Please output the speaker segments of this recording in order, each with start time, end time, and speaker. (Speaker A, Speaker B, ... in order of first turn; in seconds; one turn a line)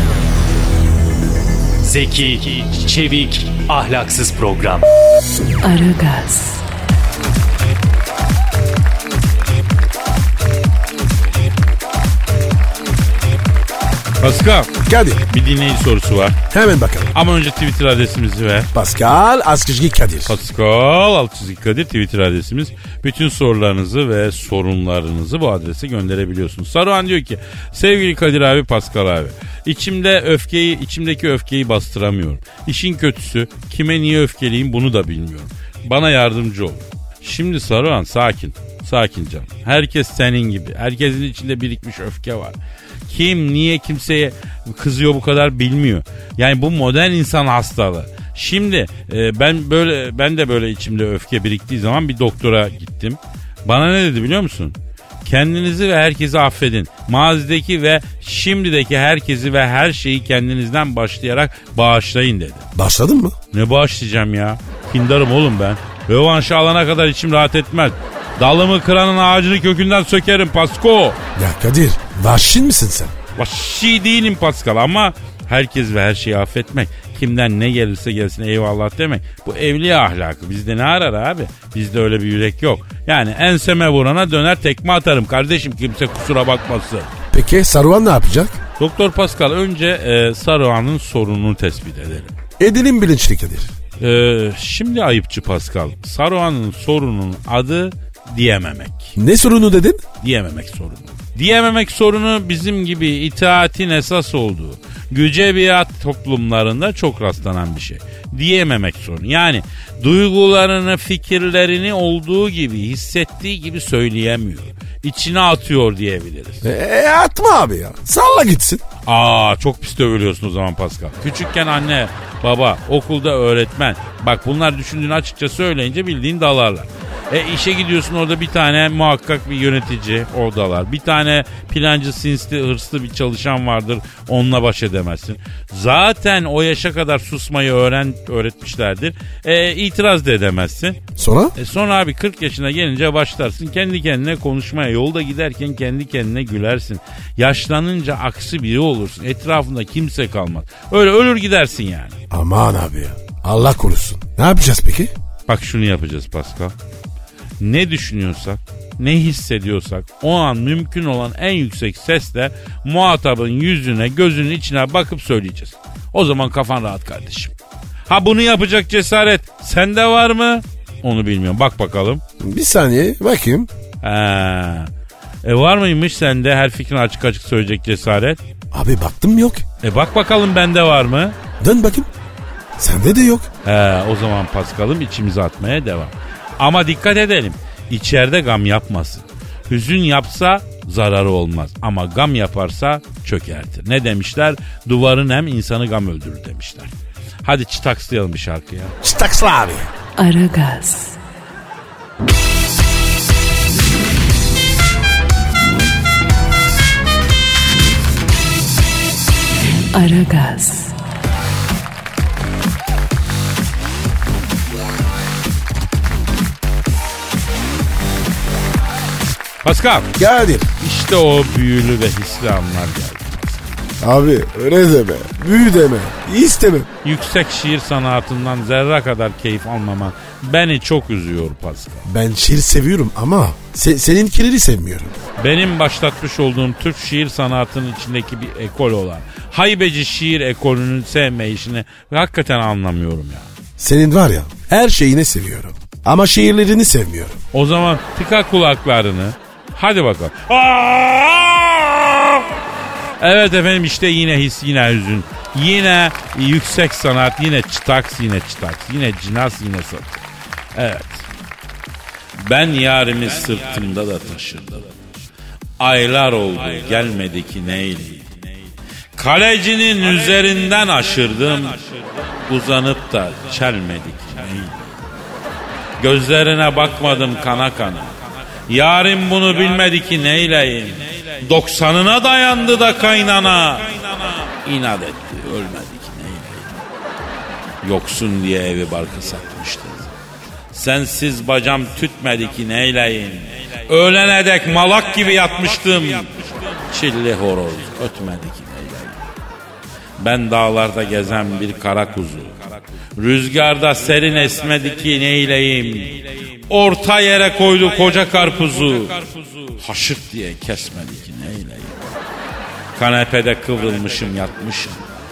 Speaker A: 1.8-4.9
Speaker B: 5.6-6.6
Speaker C: 14.2-14.8
Speaker D: 14.8-15.2
Speaker C: 15.3-16.4
Speaker D: 16.5-17.1
Speaker C: 17.1-18.7
Speaker D: 18.7-20.4
Speaker C: 20.3-42.6
Speaker C: 43.1-62.6
Speaker D: 62.8-63.4
Speaker C: 63.5-71.2
Speaker D: 71.4-73.1
Speaker C: 73.4-87.1
Speaker D: 87.3-88.6
Speaker C: 88.8-92.3
Speaker D: 92.6-93.7
Speaker C: 94.0-99.2
Speaker D: 99.2-100.0
Speaker C: 100.2-116.7
Speaker D: 116.6-118.8
Speaker C: 119.1-141.0
Speaker D: 141.2-141.6
Speaker C: 141.6-152.2
Speaker D: 152.3-155.1
Speaker C: 155.5-156.8
Speaker C: 157.6-167.5
Speaker C: 168.1-172.2
Speaker D: 172.4-173.7
Speaker C: 174.0-174.9
Speaker C: 175.4-178.4
Speaker D: 178.7-179.7
Speaker C: 179.8-181.4
Speaker D: 181.6-182.1
Speaker D: 182.8-183.5
Speaker C: 183.7-196.9
Speaker C: 197.4-198.9
Speaker D: 199.0-199.9
Speaker B: 200.2-201.2
Speaker B: 209.9-211.0
Speaker C: 219.6-220.1
Speaker D: 220.2-220.7
Speaker C: 220.8-223.8
Speaker D: 224.0-226.9
Speaker C: 227.0-232.1
Speaker D: 232.1-235.2
Speaker C: 235.4-243.5
Speaker D: 243.8-247.4
Speaker C: 247.5-252.5
Speaker C: 253.2-260.2
Speaker C: 260.8-261.3
Speaker C: 262.4-264.9
Speaker C: 265.8-268.4
Speaker C: 269.2-274.9
Speaker C: 276.0-278.2
Speaker C: 278.7-286.8
Speaker C: 287.8-290.1
Speaker C: 290.7-299.3
Speaker C: 300.2-302.6
Speaker C: 303.2-312.1
Speaker C: 313.0-315.1